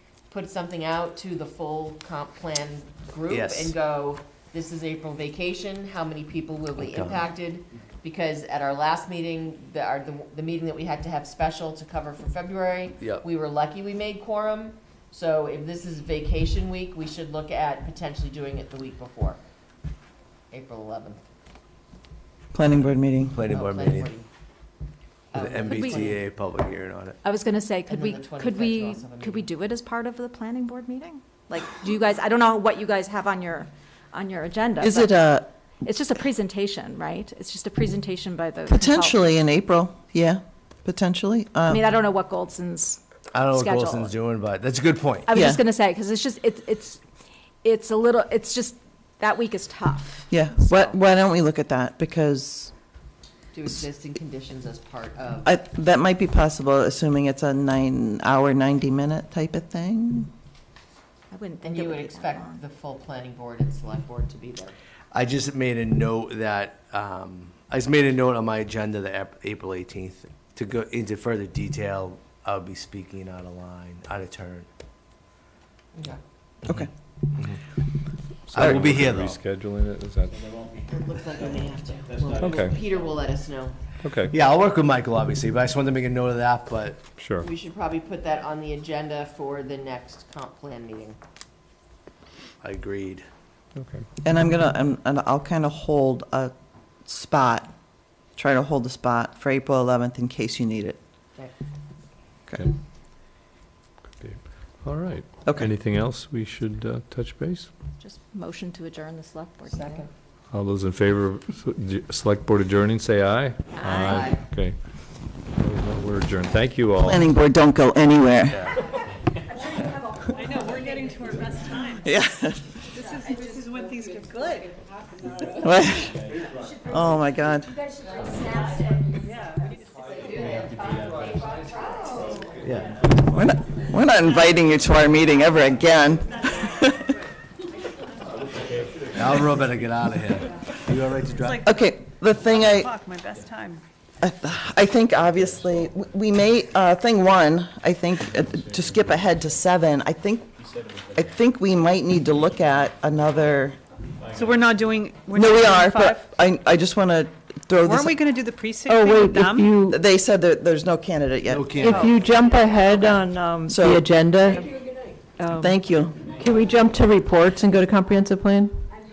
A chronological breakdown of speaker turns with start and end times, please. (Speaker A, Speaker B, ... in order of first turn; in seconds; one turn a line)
Speaker A: 0.3-19.4
Speaker B: 3.3-3.7
Speaker B: 6.8-7.3
Speaker A: 20.5-21.2
Speaker C: 22.5-23.3
Speaker B: 23.3-24.1
Speaker A: 23.5-24.3
Speaker A: 25.3-26.2
Speaker B: 25.3-27.2
Speaker D: 25.6-26.1
Speaker D: 27.2-39.2
Speaker A: 27.9-29.5
Speaker C: 34.8-35.5
Speaker C: 38.7-42.0
Speaker D: 41.7-44.2
Speaker B: 43.3-45.3
Speaker D: 45.2-47.0
Speaker C: 45.3-45.6
Speaker D: 47.6-50.9
Speaker C: 50.3-52.7
Speaker A: 53.5-55.5
Speaker C: 55.5-60.3
Speaker D: 61.3-62.6
Speaker A: 61.6-64.7
Speaker B: 65.1-74.7
Speaker E: 78.5-80.4
Speaker B: 78.5-79.3
Speaker A: 80.8-83.8
Speaker E: 82.4-82.8
Speaker E: 84.0-84.3
Speaker B: 84.3-87.1
Speaker E: 87.2-87.5
Speaker A: 87.4-91.2
Speaker B: 92.6-93.3
Speaker E: 93.8-94.0
Speaker C: 94.2-96.5
Speaker C: 97.1-97.7
Speaker C: 98.4-101.0
Speaker E: 104.2-107.7
Speaker D: 108.0-110.0
Speaker A: 109.7-110.1
Speaker E: 110.5-114.8
Speaker D: 113.8-114.3
Speaker A: 113.9-114.4
Speaker E: 115.6-117.2
Speaker C: 117.0-118.7
Speaker F: 120.4-122.0
Speaker C: 122.0-122.8
Speaker F: 122.9-124.8
Speaker C: 125.6-126.2
Speaker C: 126.8-127.8
Speaker D: 128.2-129.1
Speaker F: 129.3-129.7
Speaker D: 131.6-132.3
Speaker B: 132.6-133.0
Speaker C: 133.3-137.2
Speaker B: 139.1-141.7
Speaker F: 141.2-141.8
Speaker C: 141.6-142.9
Speaker F: 142.4-143.8
Speaker C: 144.2-150.5
Speaker C: 151.1-153.8
Speaker F: 154.4-156.3
Speaker C: 155.3-158.3
Speaker F: 157.8-159.7
Speaker G: 158.8-160.0
Speaker C: 159.9-161.8
Speaker B: 161.5-162.1
Speaker G: 161.8-164.7
Speaker C: 163.7-164.1
Speaker G: 165.4-168.8
Speaker C: 165.6-166.2